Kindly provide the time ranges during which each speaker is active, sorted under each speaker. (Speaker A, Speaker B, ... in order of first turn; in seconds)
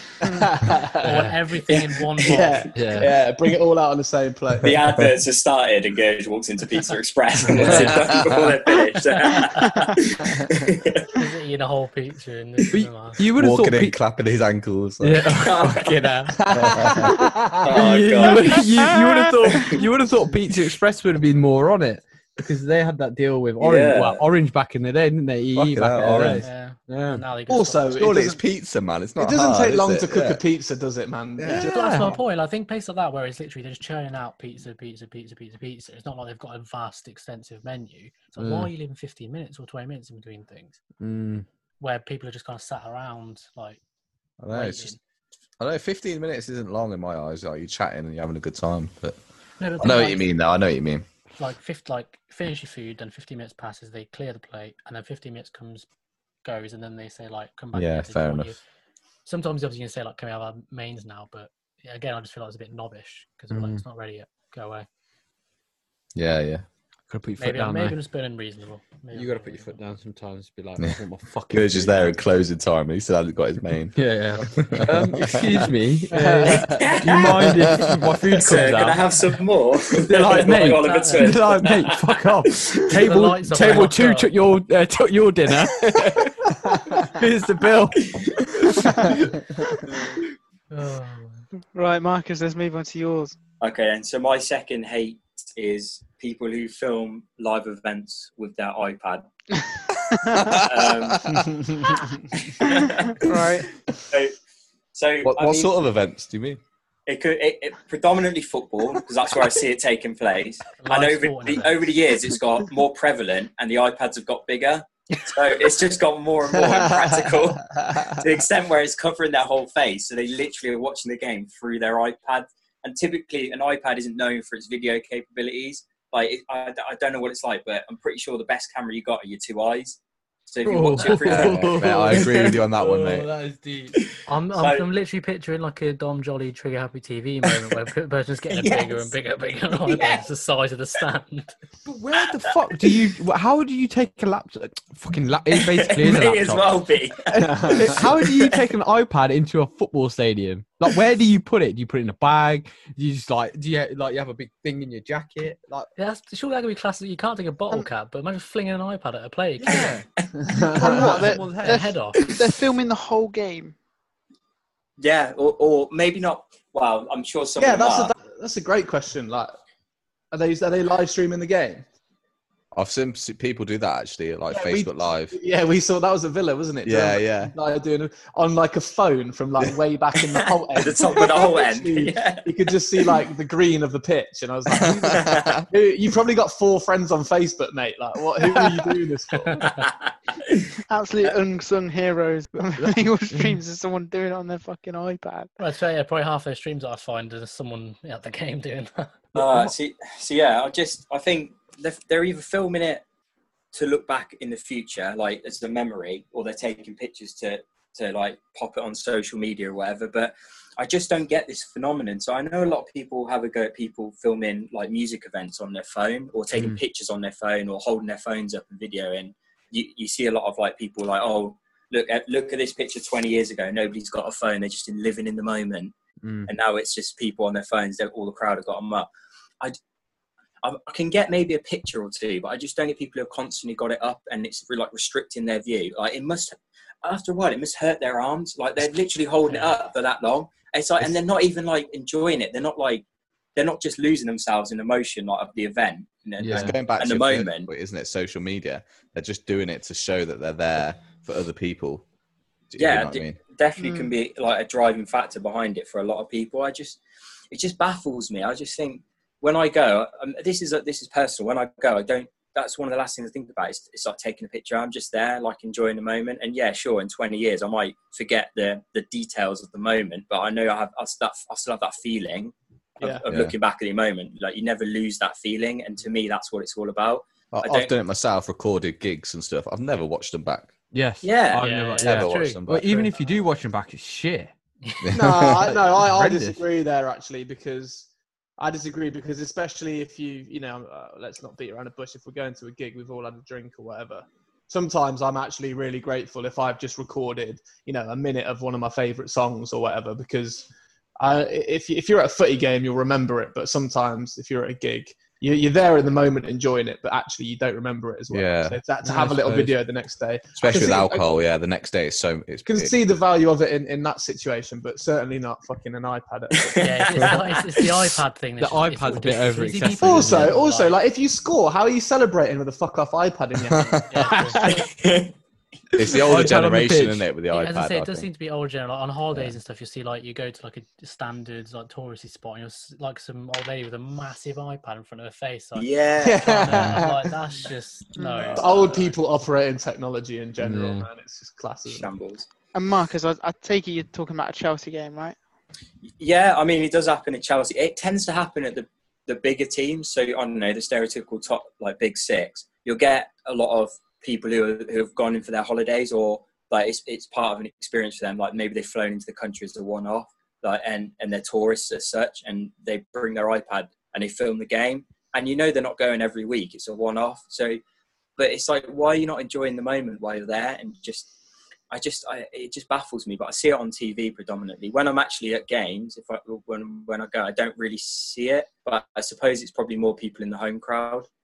Speaker A: 0.2-4.9, 16.3-17.8, 27.5-28.4, 29.2-32.2, 76.1-77.0, 101.3-102.0, 116.6-117.5, 147.4-148.0, 160.4-161.1, 167.6-169.5, 170.3-171.8, 174.5-189.7, 273.0-273.2, 285.1-300.7, 301.2-311.4, 312.6-317.3, 320.0-324.7, 336.2-337.3, 338.5-342.1
Speaker B: 1.0-2.7, 9.1-10.0, 11.1-13.2, 26.4-28.1, 31.5-40.8, 41.8-43.8, 44.5-45.0, 49.6-50.3, 51.4-55.9, 56.4-58.6, 59.2-64.9, 67.4-69.8, 80.6-81.3, 82.9-84.3, 90.7-91.5, 110.8-112.0, 134.2-141.5, 156.0-159.9, 160.9-162.2, 195.6-199.1, 281.6-283.1, 316.8-320.9, 324.1-324.7, 327.5-339.1
Speaker C: 2.7-3.1, 7.5-7.9, 12.7-14.0, 15.0-16.3, 17.7-27.2, 38.4-38.7, 41.0-41.5, 63.5-63.8, 67.1-68.0, 69.1-72.2, 73.9-79.2, 80.0-89.3, 130.6-134.1, 141.8-146.8, 147.4-155.9, 159.6-160.0, 160.7-161.8, 192.8-193.6, 199.3-199.7, 216.5-216.8, 226.2-226.5, 246.4-246.7, 280.9-284.5, 285.6-286.6, 309.0-309.8, 318.6-320.5, 326.1-327.2, 340.6-341.1
Speaker D: 4.6-11.2, 15.3-16.3, 17.6-18.9, 19.5-19.8, 23.6-24.2, 76.6-77.6, 78.3-82.7, 89.9-90.2, 93.6-99.2, 100.4-101.4, 102.3-103.3, 104.9-105.8, 107.1-131.8, 134.1-134.9, 138.5-139.1, 139.8-140.2, 145.6-148.6, 159.7-160.3, 165.0-168.1, 180.7-182.5, 185.1-185.6, 189.8-190.7, 199.3-203.0, 203.7-225.9, 226.5-229.1, 230.6-247.7, 252.8-257.0, 257.5-277.9, 281.2-281.7, 316.6-317.9, 324.6-325.3, 335.7-336.7, 338.4-338.9, 341.9-342.5, 346.1-367.8, 368.4-371.3, 371.9-381.3
Speaker E: 13.4-15.3, 16.6-17.1, 25.5-26.4, 27.9-30.4, 31.4-31.7, 44.4-44.9, 45.6-49.2, 49.8-51.0, 57.7-58.6, 66.1-66.6, 71.5-75.6, 77.5-77.9, 100.3-100.8, 105.2-106.6, 131.2-133.3, 172.7-175.3, 176.8-177.5, 184.8-185.6, 246.5-252.0, 252.7-253.4, 273.3-273.5, 277.5-280.7, 282.0-282.9, 285.0-285.7, 308.3-308.8, 310.6-312.9, 323.7-324.0, 325.9-328.3
Speaker F: 91.7-93.4, 103.1-103.7, 160.8-163.7, 190.9-195.5, 253.8-254.1, 338.1-338.5, 342.7-345.4